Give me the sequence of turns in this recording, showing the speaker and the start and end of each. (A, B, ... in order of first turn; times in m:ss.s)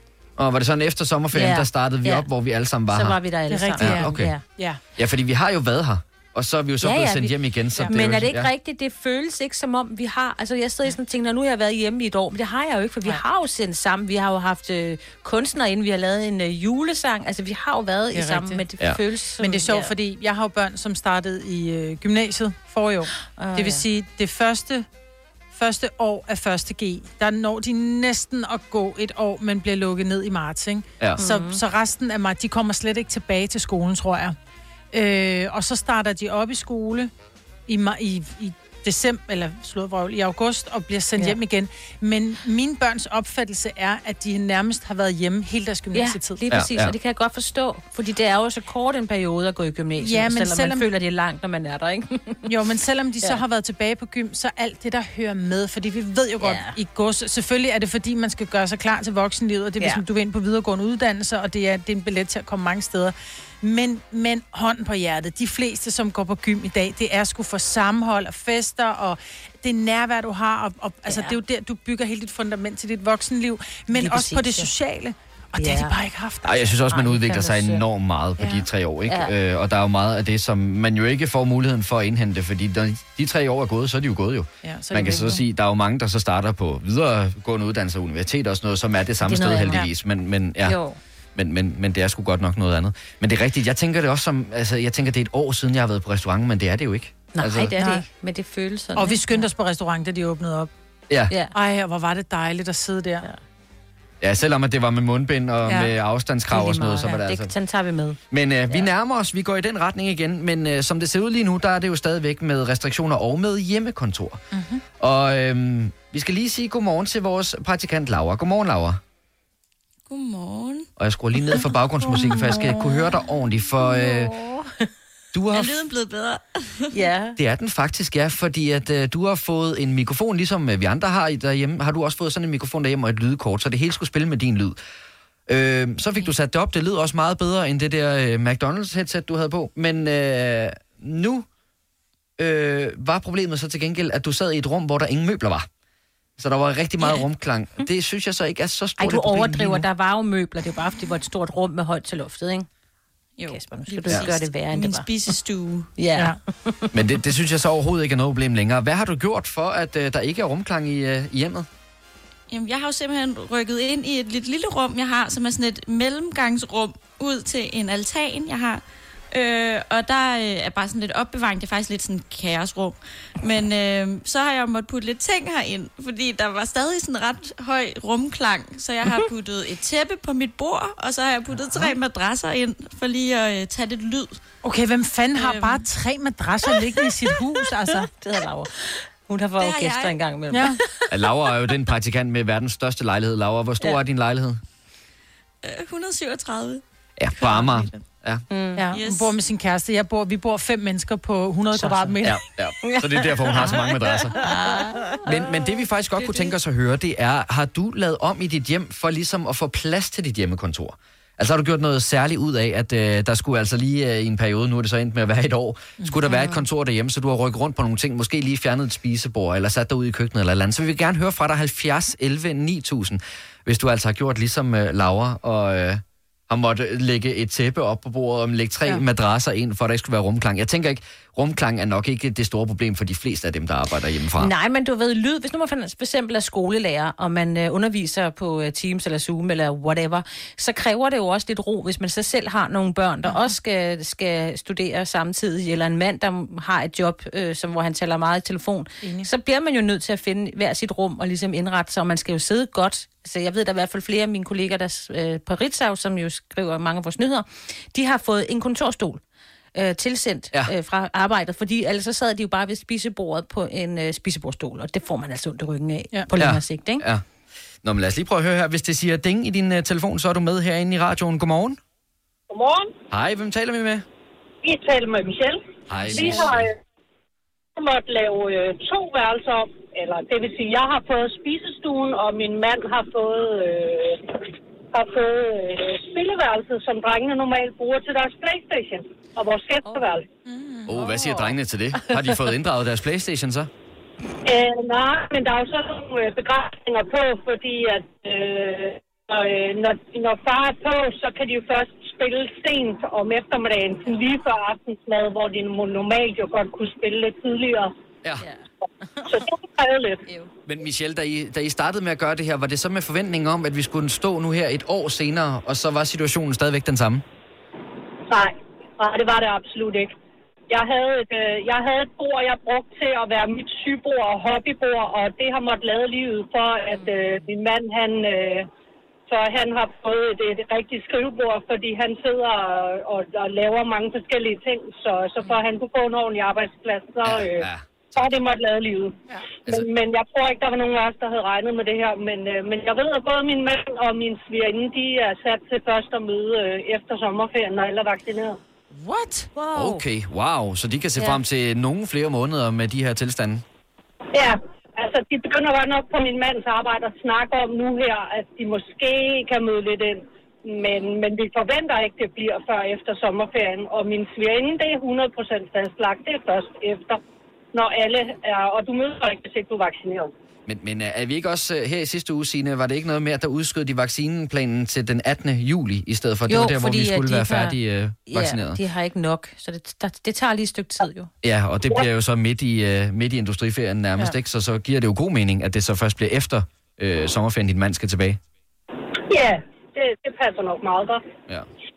0:00.4-0:03.2 A
0:01.3-0:02.3 B
0:02.9-0:04.4 B
0:03.5-0:04.8 C
0:03.8-0:04.3 A
0:05.0-0:08.5 A
0:06.8-0:19.9 B
0:07.8-0:08.2 C
0:18.1-0:18.6 C
0:19.4-0:24.9 C
0:23.4-0:23.8 B
0:25.5-0:34.4 C
0:31.2-0:31.6 B
0:34.9-0:37.1 C
0:37.7-0:46.4 C
0:45.9-0:52.4 B
0:46.5-0:46.9 A
0:50.0-0:50.8 C
0:52.5-1:16.7 C
0:56.4-0:56.8 B
1:11.1-1:11.4 B
1:13.9-1:14.7 B
1:15.6-1:15.9 B
1:16.4-1:30.8 A
1:16.9-1:17.8 B
1:19.1-1:19.3 B
1:24.6-1:25.4 C
1:25.0-1:25.4 B
1:29.2-1:29.9 B
1:30.6-1:31.0 B
1:31.3-1:37.7 A
1:37.3-1:39.4 B
1:37.8-1:38.0 C
1:38.9-1:40.7 C
1:41.3-1:41.5 B
1:41.5-1:43.3 C
1:44.2-1:47.5 A
1:45.6-1:45.9 C
1:46.5-1:48.9 B
1:48.3-1:54.4 A
1:54.5-1:54.8 C
1:55.0-1:59.0 A
2:00.1-2:00.9 D
2:01.0-2:04.3 A
2:02.1-2:03.0 D
2:03.8-2:04.9 B
2:05.3-2:05.8 A
2:05.5-2:06.9 D
2:06.9-2:07.4 B
2:07.4-2:14.8 A
2:15.5-2:21.4 A
2:22.4-2:25.7 A
2:26.4-2:29.9 A
2:29.0-2:32.7 B
2:33.4-2:35.9 D
2:33.4-2:35.1 B
2:36.0-2:36.9 B
2:36.9-2:41.7 A
2:42.5-3:04.4 D
3:04.6-3:08.1 C
3:05.3-3:05.8 D
3:07.9-3:11.2 B
3:09.6-3:10.2 D
3:10.5-3:10.8 C
3:11.1-3:14.6 A
3:15.6-3:16.8 D
3:17.2-3:18.4 A
3:17.4-3:18.0 D
3:18.5-3:18.9 B
3:18.8-3:22.4 C
3:18.9-3:19.3 D
3:21.7-3:22.1 B
3:22.2-3:24.3 A
3:22.8-3:25.2 B
3:25.2-3:54.5 A
3:26.2-3:26.5 D
3:54.4-4:19.2 B
4:03.2-4:03.5 C
4:09.0-4:09.3 C
4:19.7-4:27.0 B
4:26.3-4:27.2 A
4:27.8-4:31.8 A
4:32.5-4:32.9 E
4:33.1-4:34.0 A
4:34.6-4:36.8 E
4:35.9-4:36.7 A
4:37.7-4:50.2 E
4:50.4-4:51.5 C
4:50.8-4:53.7 A
4:54.4-5:07.9 E
5:08.4-5:09.4 B
5:09.2-5:10.2 E
5:10.7-5:17.2 A
5:18.3-5:20.1 E
5:20.7-5:28.7 E
5:27.0-5:27.4 B
5:29.3-5:48.6 E
5:37.2-5:37.9 A
5:48.9-5:49.5 C
5:49.5-5:50.0 B
5:49.7-5:53.6 A
5:54.3-6:07.2 E
6:07.7-6:10.3 E
6:10.7-6:18.8 A
6:16.5-6:17.8 B
6:18.3-6:21.3 B
6:21.4-6:28.4 A
6:29.3-6:31.2 E